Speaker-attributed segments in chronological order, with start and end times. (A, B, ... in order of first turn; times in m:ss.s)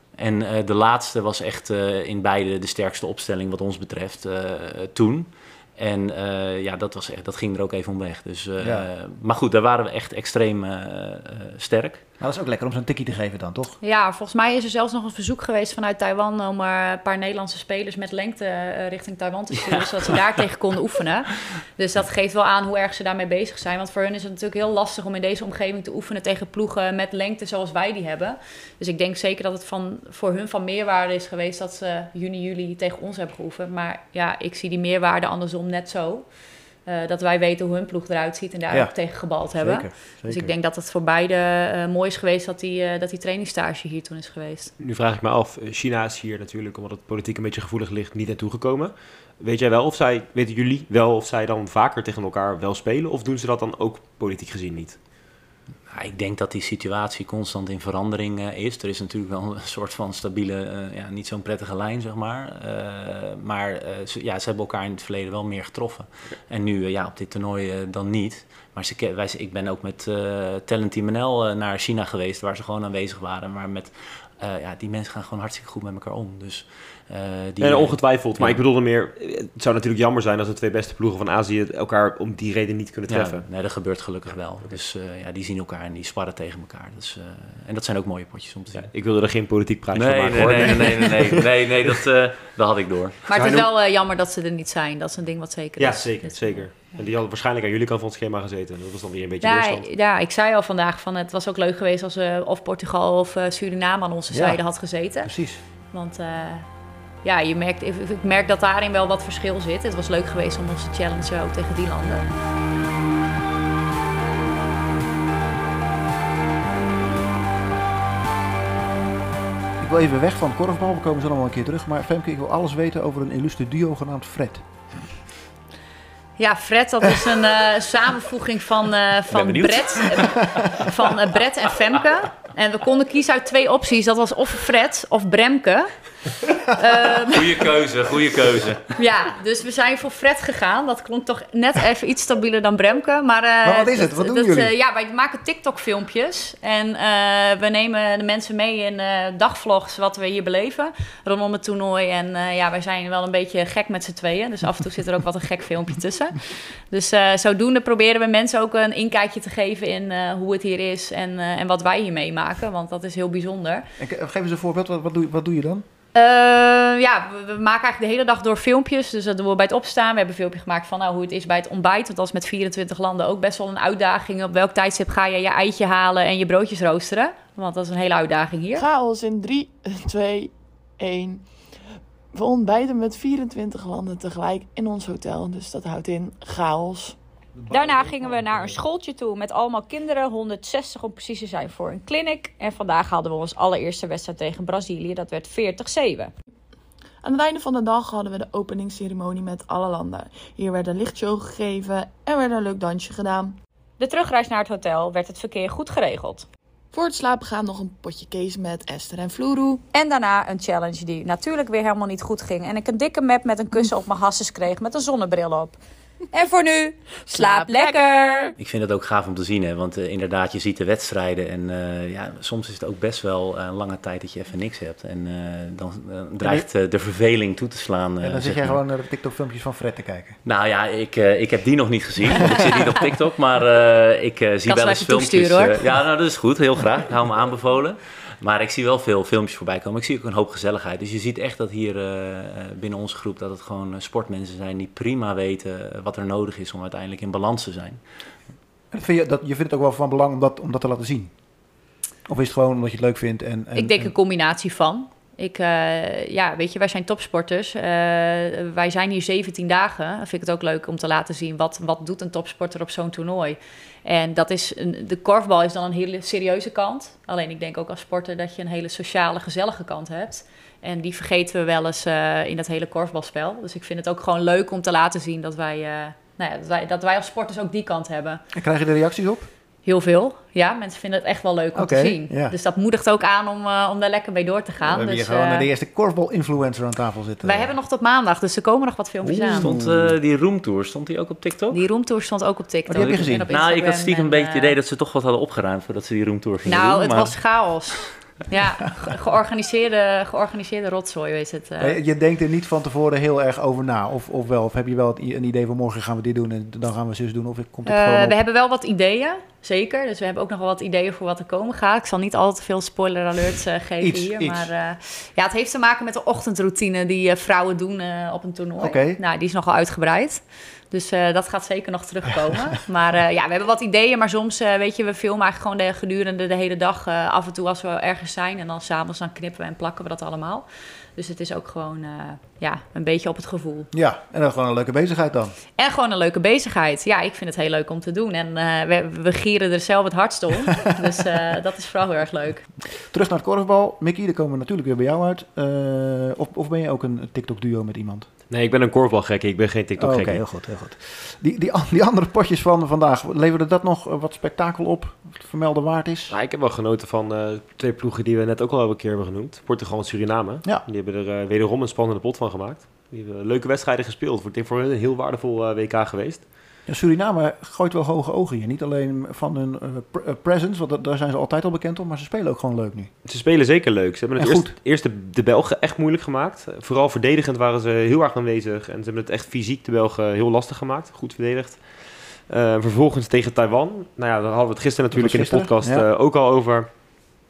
0:00.2-0:12.0 A
0:08.6-0:08.9 B
0:12.2-0:13.8 B
0:13.8-0:44.7 C
0:38.7-0:40.5 B
0:44.8-0:55.0 D
0:55.9-1:18.6 A
1:17.6-1:23.4 D
1:23.1-1:28.9 A
1:28.7-1:31.4 D
1:29.9-1:33.6 A
1:33.3-1:36.8 C
1:35.8-1:39.9 D
1:39.4-1:45.3 C
1:44.3-1:45.6 B
1:45.9-1:46.7 C
1:47.2-1:52.2 C
1:59.8-2:04.7 B
2:06.4-2:15.9 C
2:09.3-2:10.6 A
2:16.7-2:17.6 C
2:17.3-2:18.9 A
2:19.0-2:43.9 C
2:23.6-2:24.7 B
2:44.0-2:45.8 B
2:46.2-2:58.8 C
2:58.8-3:01.5 E
3:02.3-3:07.2 E
3:07.7-3:16.3 C
3:17.2-3:23.6 E
3:24.0-3:26.5 C
3:26.9-3:29.8 E
3:29.9-3:35.8 C
3:36.3-3:38.5 C
3:38.6-3:48.8 A
3:46.4-3:46.7 B
3:48.2-3:50.4 B
3:50.4-4:08.0 A
3:54.7-3:55.8 C
4:08.9-4:11.3 B
4:12.3-4:14.1 B
4:13.8-4:38.4 C
4:38.5-4:39.5 B
4:39.8-4:45.7 C
4:41.8-4:42.6 B
4:44.8-4:47.8 B
4:47.4-4:49.7 C
4:49.2-4:50.2 B
4:49.6-4:51.8 A
4:51.7-4:54.8 C
4:52.9-4:53.5 B
4:53.0-4:57.4 A
4:56.7-5:02.0 C
5:01.8-5:08.4 B
5:07.8-5:33.9 C
5:14.0-5:14.7 B
5:18.8-5:19.2 B
5:33.9-5:35.6 B
5:35.8-5:42.7 C
5:43.0-5:48.3 B
5:48.5-5:50.4 D
5:50.0-5:56.4 B
5:56.3-6:06.5 D
6:06.9-6:13.1 B
6:13.2-6:27.0 D
6:14.4-6:14.7 B
6:25.1-6:26.1 B